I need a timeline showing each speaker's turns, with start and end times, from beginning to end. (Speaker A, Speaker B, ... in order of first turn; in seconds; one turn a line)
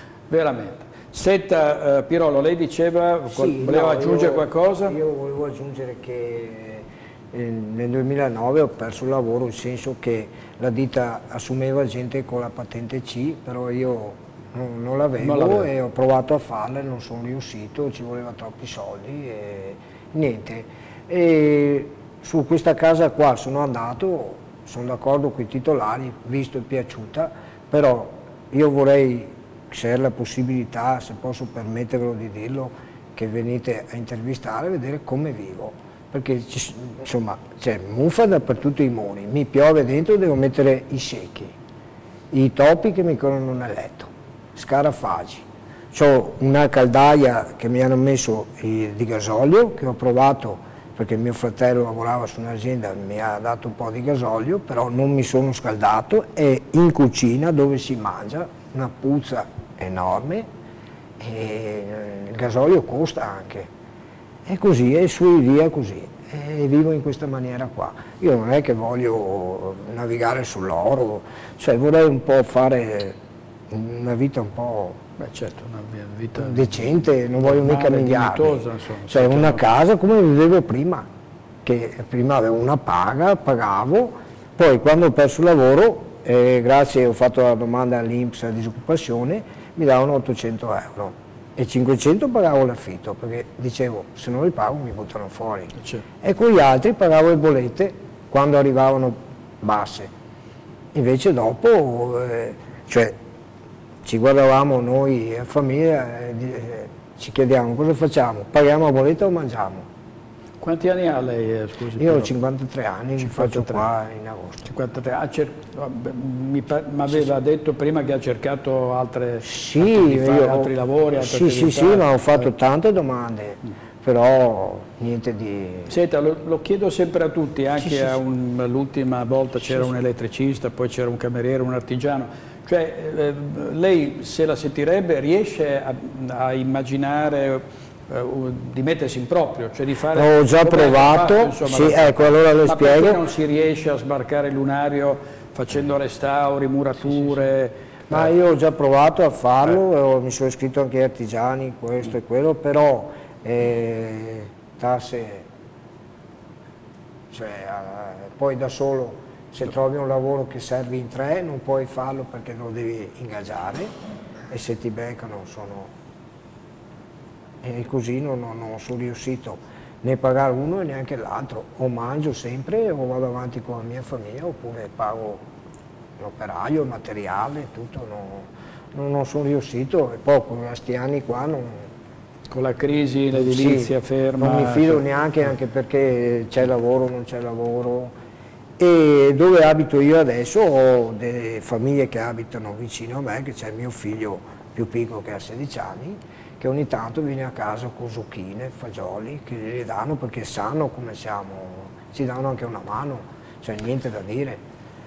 Speaker A: 0.3-5.0
Speaker B: 3.3-41.5
Speaker A: 15.2-15.7
Speaker B: 42.3-60.5
Speaker B: 61.2-63.7
Speaker B: 64.5-73.2
Speaker B: 73.7-75.0
Speaker A: 75.2-79.6
Speaker B: 76.4-81.1
Speaker B: 81.6-100.1
Speaker B: 100.9-103.1
Speaker B: 104.0-109.9
Speaker A: 110.6-112.3
Speaker B: 112.0-114.7
Speaker A: 113.2-113.9
Speaker A: 114.6-122.5
Speaker B: 119.4-125.9
Speaker A: 125.9-148.3
Speaker B: 140.1-143.2
Speaker B: 148.1-155.5
Speaker B: 157.3-163.9
Speaker B: 164.5-165.9
Speaker B: 167.6-175.4
Speaker B: 176.2-181.9
Speaker A: 182.5-185.0
Speaker B: 183.3-188.1
Speaker B: 188.8-204.6